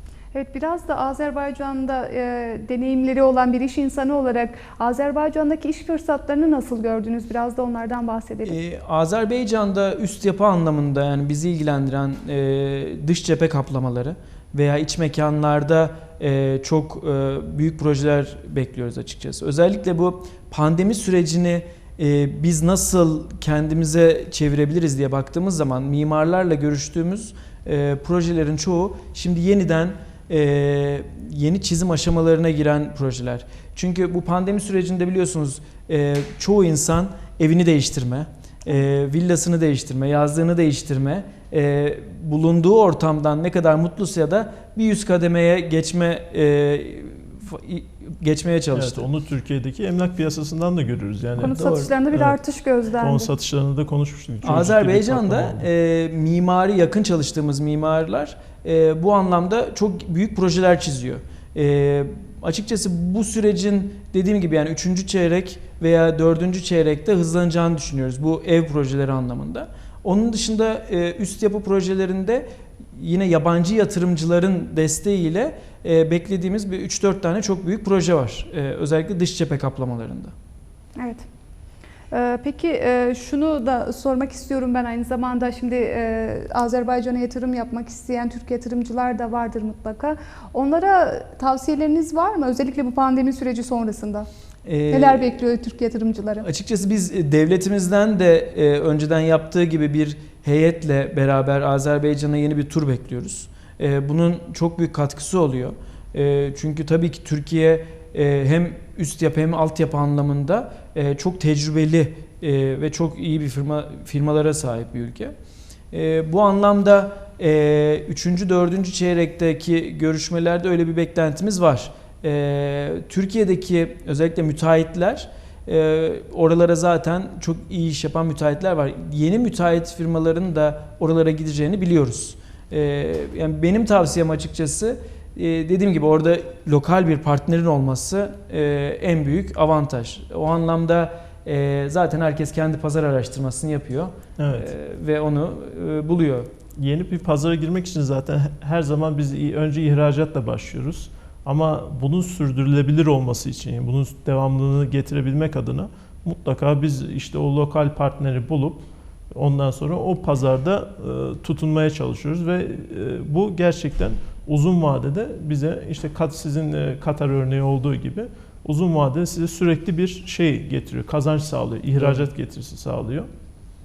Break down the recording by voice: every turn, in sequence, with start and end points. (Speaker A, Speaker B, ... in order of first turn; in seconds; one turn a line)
Speaker A: 0.3-8.6
Speaker B: 8.4-49.1
Speaker C: 48.7-52.4
Speaker A: 51.4-53.3
Speaker C: 53.0-55.7
Speaker B: 54.4-80.3
Speaker A: 81.0-81.3
Speaker A: 82.1-94.3
Speaker B: 94.7-95.4
Speaker A: 94.9-96.5
Speaker B: 96.4-115.3
Speaker B: 115.9-146.5
Speaker C: 144.4-144.7
Speaker C: 146.8-173.3
Speaker B: 172.0-172.2